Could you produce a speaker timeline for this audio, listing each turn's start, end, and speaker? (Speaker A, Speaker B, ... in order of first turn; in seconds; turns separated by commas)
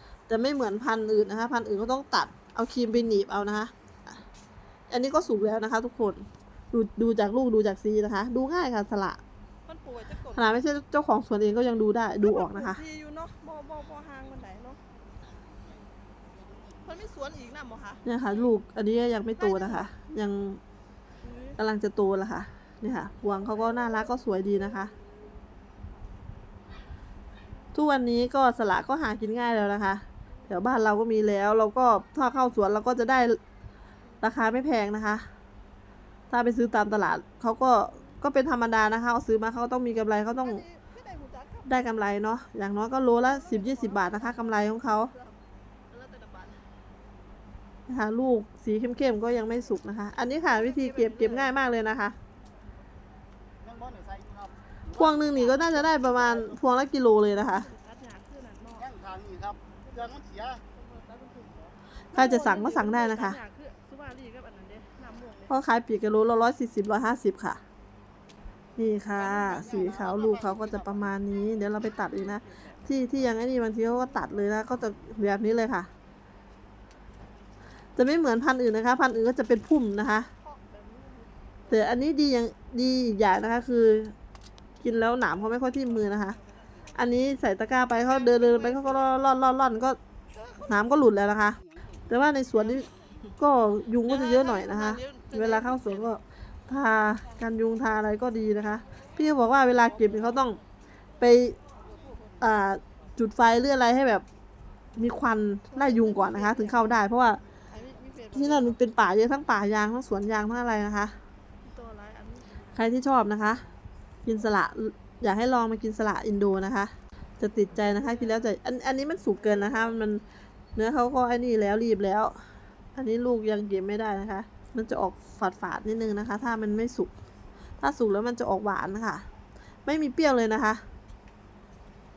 Speaker A: 0.3-3.7, Speaker A: 4.9-9.2, Speaker B: 9.7-10.6, Speaker A: 10.3-12.8, Speaker B: 12.2-14.8, Speaker B: 16.8-18.5, Speaker A: 18.0-20.6, Speaker B: 19.4-19.9, Speaker B: 21.2-21.6, Speaker A: 21.6-24.9, Speaker B: 23.2-24.1, Speaker A: 27.7-33.4, Speaker B: 30.3-30.6, Speaker B: 34.0-34.3, Speaker A: 34.2-35.3, Speaker A: 36.3-40.6, Speaker B: 37.8-38.2, Speaker B: 40.4-41.9, Speaker A: 41.6-45.1, Speaker B: 43.2-46.6, Speaker A: 47.9-52.2, Speaker B: 50.5-51.6, Speaker C: 53.6-54.5, Speaker B: 54.9-56.4, Speaker A: 54.9-57.7, Speaker B: 57.2-58.9, Speaker C: 58.8-60.6, Speaker B: 59.7-65.5, Speaker A: 62.1-63.4, Speaker A: 65.5-67.6, Speaker A: 68.8-75.9, Speaker B: 69.2-70.0, Speaker C: 69.4-70.8, Speaker B: 72.1-74.5, Speaker A: 78.0-80.3, Speaker B: 80.4-81.9, Speaker A: 81.7-84.1, Speaker A: 84.8-86.4, Speaker B: 85.9-86.9, Speaker A: 86.9-90.0, Speaker B: 88.0-89.2, Speaker A: 90.6-100.6, Speaker B: 92.6-92.9, Speaker B: 94.0-96.2, Speaker B: 98.8-99.1, Speaker A: 101.2-101.6, Speaker B: 101.9-102.3, Speaker A: 102.4-104.2, Speaker A: 105.0-107.4, Speaker B: 105.7-106.9, Speaker B: 107.7-108.8, Speaker A: 108.3-111.2, Speaker B: 111.6-112.7, Speaker A: 112.7-113.6, Speaker A: 114.2-120.2, Speaker B: 117.5-118.5, Speaker B: 119.3-119.9, Speaker A: 120.8-122.4, Speaker A: 122.9-127.1, Speaker A: 127.8-129.2, Speaker A: 129.8-130.8